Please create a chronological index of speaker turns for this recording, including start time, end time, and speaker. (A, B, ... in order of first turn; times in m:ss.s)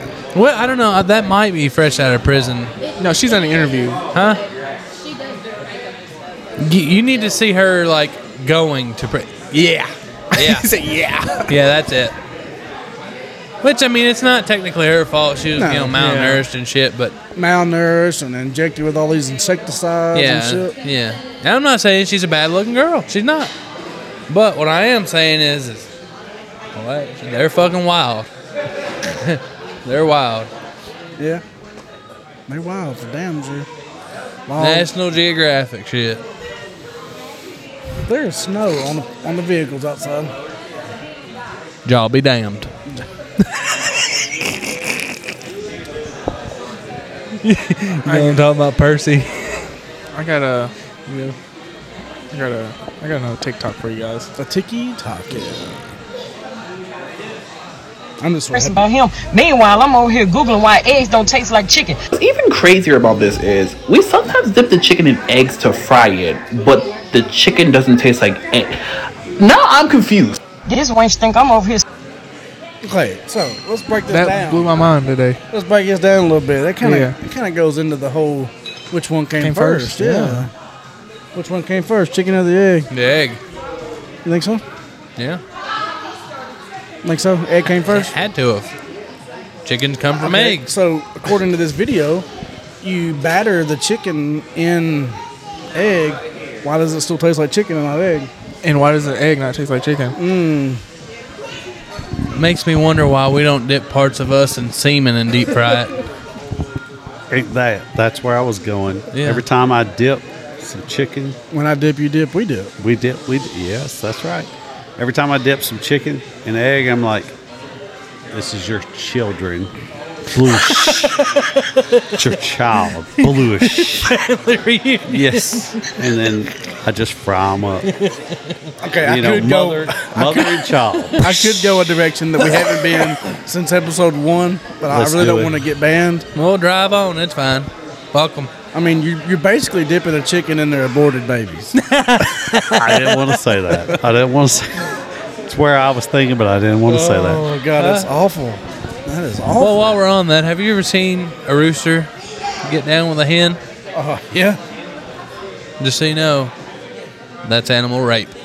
0:00.3-0:02.7 A
0:02.8-0:04.3 B
0:03.0-0:04.0 C
0:04.1-0:04.4 A
0:04.9-0:06.0 B
0:06.6-0:09.5 A
0:09.5-0:11.5 C
0:10.4-0:10.7 A
0:11.5-0:12.2 A
0:13.6-0:17.2 A
0:15.6-0:16.0 D
0:16.0-0:16.4 C
0:17.4-0:20.7 D
0:20.1-0:23.5 A
0:24.3-0:25.9 A
0:26.8-0:28.3 A
0:29.2-0:30.5 A
0:31.2-0:31.4 D
0:32.5-0:33.7 D
0:34.5-0:34.9 D
0:34.6-0:36.2 A
0:38.1-0:40.3 D
0:41.8-0:42.7 A
0:43.5-0:44.3 A
0:47.4-0:49.6 A
0:48.1-0:48.4 C
0:50.1-0:50.7 C
0:51.1-0:51.4 A
0:52.3-0:54.3 C
0:54.4-0:55.8 D
0:58.2-0:58.8 D
0:58.5-1:02.1 E
1:02.1-1:08.8 F
1:09.4-1:10.4 F
1:10.7-1:11.8 E
1:12.8-1:14.7 D
1:14.1-1:15.4 C
1:15.5-1:20.5 D
1:16.8-1:17.2 C
1:19.4-1:20.5 C
1:21.4-1:22.9 D
1:22.9-1:23.4 A
1:24.2-1:24.6 D
1:27.0-1:28.1 D
1:27.9-1:28.7 A
1:29.6-1:30.7 A
1:30.2-1:32.3 D
1:32.8-1:35.2 D
1:35.7-1:38.3 D
1:38.6-1:40.2 C
1:40.2-1:40.8 D
1:42.4-1:46.0 A
1:47.3-1:51.4 G
1:49.1-1:49.4 A
1:51.5-1:52.7 D
1:52.8-1:57.4 G
1:58.3-1:59.7 G
2:00.3-2:01.3 G
2:00.6-2:02.1 A
2:02.2-2:04.2 G
2:03.2-2:05.9 A
2:05.1-2:07.9 G
2:07.9-2:08.7 A
2:08.8-2:16.3 D
2:09.0-2:11.3 G
2:11.3-2:11.6 A
2:12.4-2:13.1 A
2:14.9-2:15.6 G
2:16.4-2:18.5 A
2:18.7-2:21.7 D
2:21.8-2:23.2 A
2:22.8-2:27.5 G
2:26.9-2:30.0 D
2:27.8-2:28.1 A
2:29.6-2:32.1 A
2:32.6-2:33.6 A
2:33.9-2:34.6 D
2:35.8-2:36.5 A
2:37.4-2:38.3 A